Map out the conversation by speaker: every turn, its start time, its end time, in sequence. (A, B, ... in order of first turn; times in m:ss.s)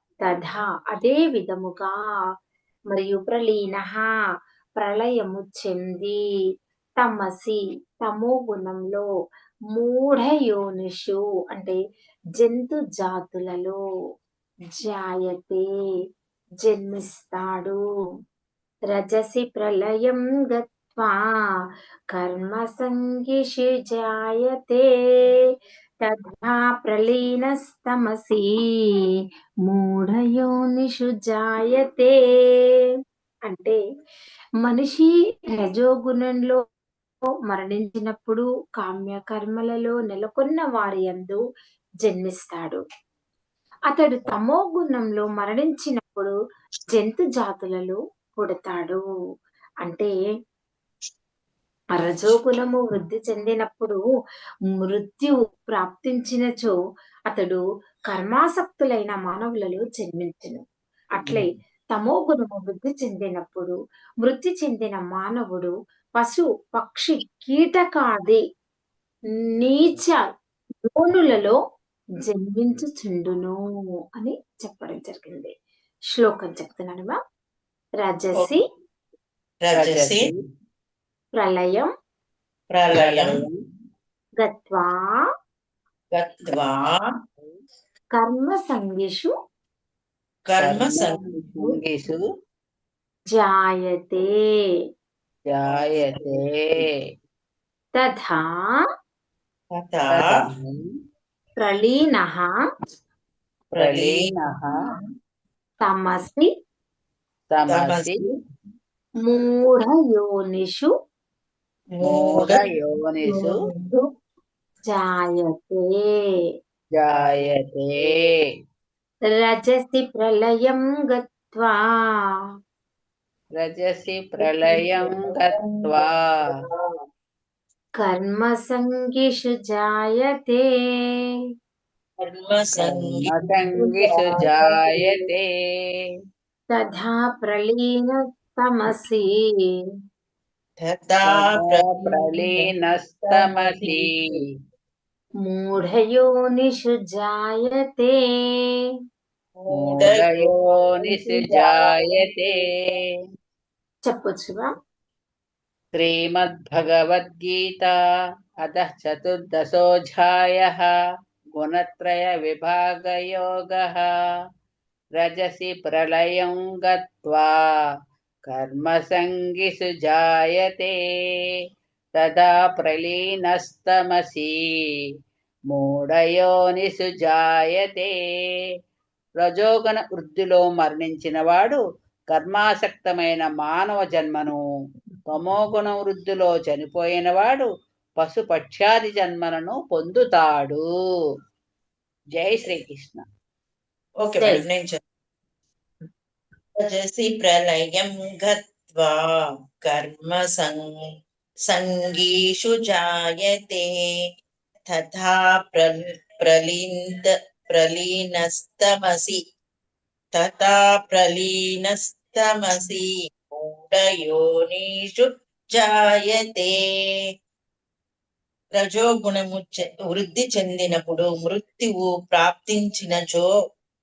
0:00.2-0:02.0 A
0:02.9-0:04.1 A
0:04.8-0:06.2 A
0:07.0-0:09.0 A
0:09.7-0:11.8 A
0:12.4-0:13.8 A
0:14.7-0:15.6 A
0:16.6-0:17.8 A
0:18.9-0:21.2 A
0:22.1-0:25.3 A
0:26.0-0:29.0 A
0:29.6-0:32.8 A
0:33.5-0:33.8 A
0:34.6-0:36.6 A
0:37.5-0:41.4 A
0:42.0-0:42.8 A
0:43.9-0:46.3 A
0:46.9-0:49.0 A
0:49.8-0:50.1 A
0:51.9-0:54.0 A
0:54.7-0:56.7 A
0:57.3-1:00.6 A
1:01.2-1:08.4 A
1:09.5-1:10.2 A
1:10.9-1:11.6 A
1:12.2-1:13.6 A
1:14.2-1:15.5 A
1:16.1-1:17.2 A
1:18.0-1:18.6 A
1:19.6-1:20.3 B
1:19.7-1:20.4 C
1:21.4-1:21.9 A
1:22.7-1:23.4 B
1:22.9-1:23.6 C
1:24.4-1:25.2 A
1:26.1-1:27.1 B
1:28.1-1:29.3 A
1:30.5-1:31.2 B
1:30.6-1:32.2 C
1:33.3-1:34.3 A
1:35.5-1:37.1 C
1:35.7-1:36.9 B
1:38.0-1:38.8 A
1:39.7-1:40.5 B
1:40.1-1:40.9 C
1:41.6-1:42.5 A
1:43.7-1:44.4 B
1:43.8-1:44.8 C
1:45.8-1:46.5 A
1:47.5-1:48.2 C
1:47.7-1:48.3 B
1:49.2-1:50.9 A
1:51.9-1:52.6 B
1:52.0-1:53.6 C
1:53.2-1:54.1 B
1:54.9-1:56.5 A
1:56.9-1:58.4 C
1:59.3-2:02.2 A
2:03.5-2:06.6 C
2:04.4-2:07.0 B
2:08.0-2:11.2 A
2:12.2-2:15.2 B
2:12.8-2:15.5 C
2:16.7-2:19.4 A
2:20.8-2:22.7 B
2:21.3-2:24.5 C
2:23.2-2:24.4 B
2:25.4-2:28.7 A
2:29.6-2:30.5 B
2:29.7-2:33.0 C
2:31.0-2:32.4 B
2:34.0-2:34.7 A
2:35.9-2:37.9 C
2:38.6-2:40.9 C
2:41.6-2:44.1 C
2:45.2-2:47.6 C
2:48.5-2:50.9 C
2:52.2-2:54.6 C
2:55.7-2:58.1 C
2:59.4-3:04.6 C
3:05.3-3:07.7 C
3:08.2-3:10.8 C
3:12.4-3:13.2 C
3:14.2-3:15.0 B
3:16.8-3:20.9 B
3:21.7-3:23.9 B
3:24.9-3:29.4 B
3:30.3-3:36.8 B
3:38.7-3:43.5 B